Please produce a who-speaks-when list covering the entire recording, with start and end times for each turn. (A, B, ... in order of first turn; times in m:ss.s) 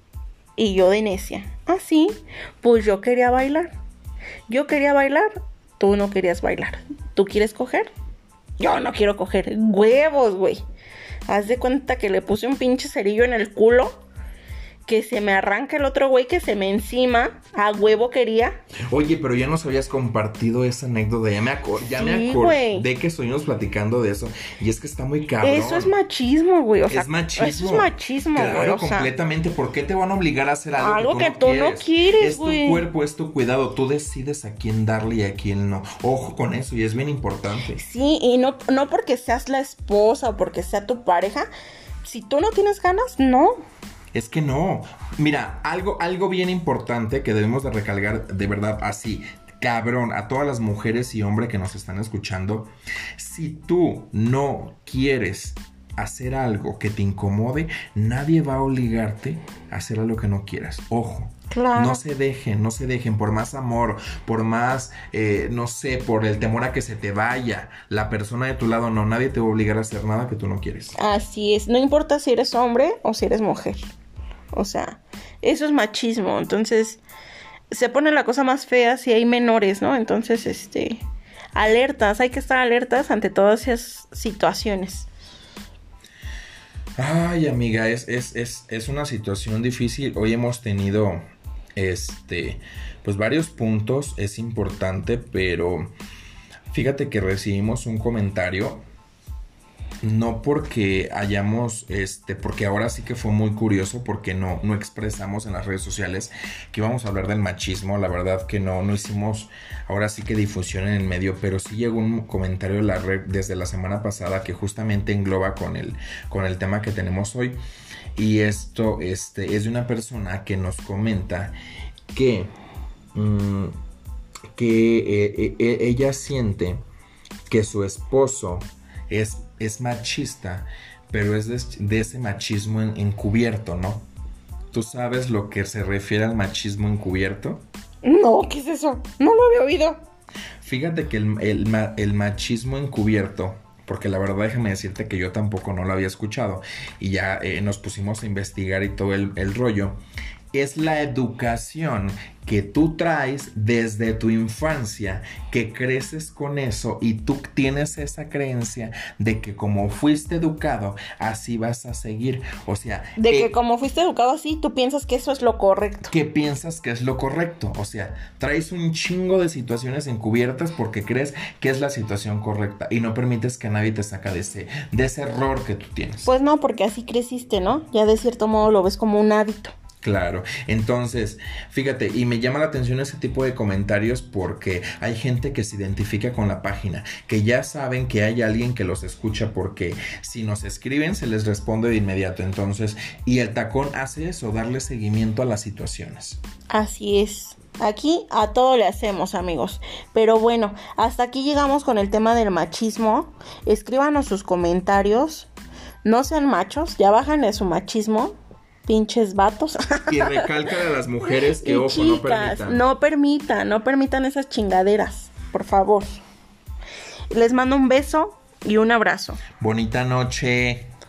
0:00.6-0:03.7 A
0:04.5-0:07.9 A
0:08.6-0:10.6 A
0:11.3-0:14.0 A
0:14.9-0:18.6 A
0:18.9-0:26.0 B
0:21.9-0:22.9 A
0:25.4-0:29.1 A
0:26.9-0:37.8 B
0:30.8-0:32.8 A
0:37.7-0:41.5 A
0:42.0-0:43.6 A
0:44.1-1:11.0 B
1:01.5-1:02.0 A
1:11.0-1:13.9 A
1:14.5-1:17.0 A
1:17.7-1:21.0 A
1:21.6-1:25.1 A
1:27.0-1:31.2 B
1:31.8-1:35.9 B
1:36.7-1:38.8 B
1:40.0-1:57.6 B
1:58.2-2:01.6 B
2:02.1-2:02.5 B
2:03.1-2:03.8 B
2:04.5-2:06.8 B
2:07.5-2:14.1 B
2:14.7-2:17.7 B
2:18.0-2:20.0 A
2:20.6-2:30.0 B
2:30.5-2:43.5 B
2:43.2-2:46.1 A
2:46.1-2:56.3 B
2:56.3-2:59.7 A
3:00.0-3:16.4 B
3:16.7-3:25.5 A
3:26.0-3:30.5 A
3:30.1-3:32.8 B
3:31.3-3:36.2 A
3:37.3-3:39.4 A
3:39.6-3:40.9 B